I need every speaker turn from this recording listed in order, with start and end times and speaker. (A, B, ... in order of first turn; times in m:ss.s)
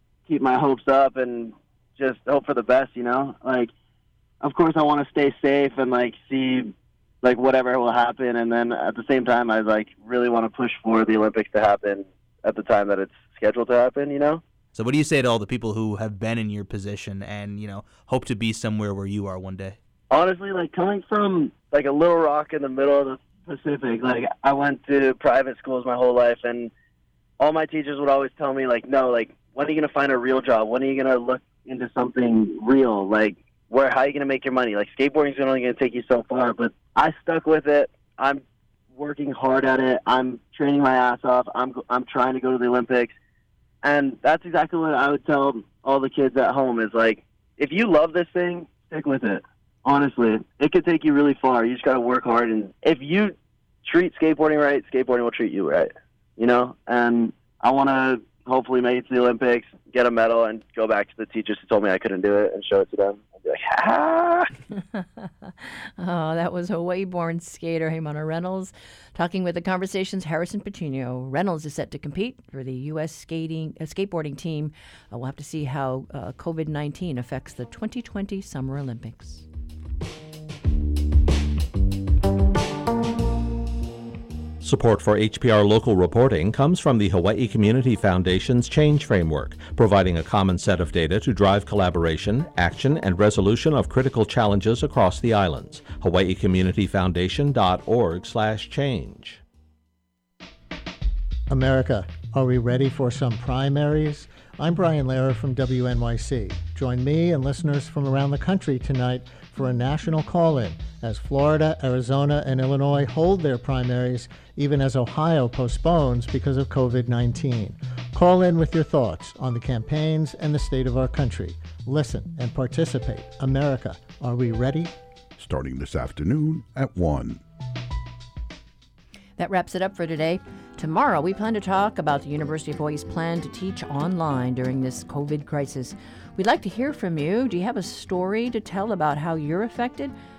0:00.3-0:03.7 A
0:04.4-0:14.4 A
0:14.7-0:19.8 B
0:20.1-0:26.7 A
0:27.4-0:38.4 A
0:38.9-0:43.1 A
0:43.8-0:53.3 A
0:53.8-1:04.5 A
1:04.8-1:19.4 C
1:24.6-1:39.4 D
1:41.5-2:04.9 E
2:05.4-2:07.4 F
2:09.4-2:20.1 C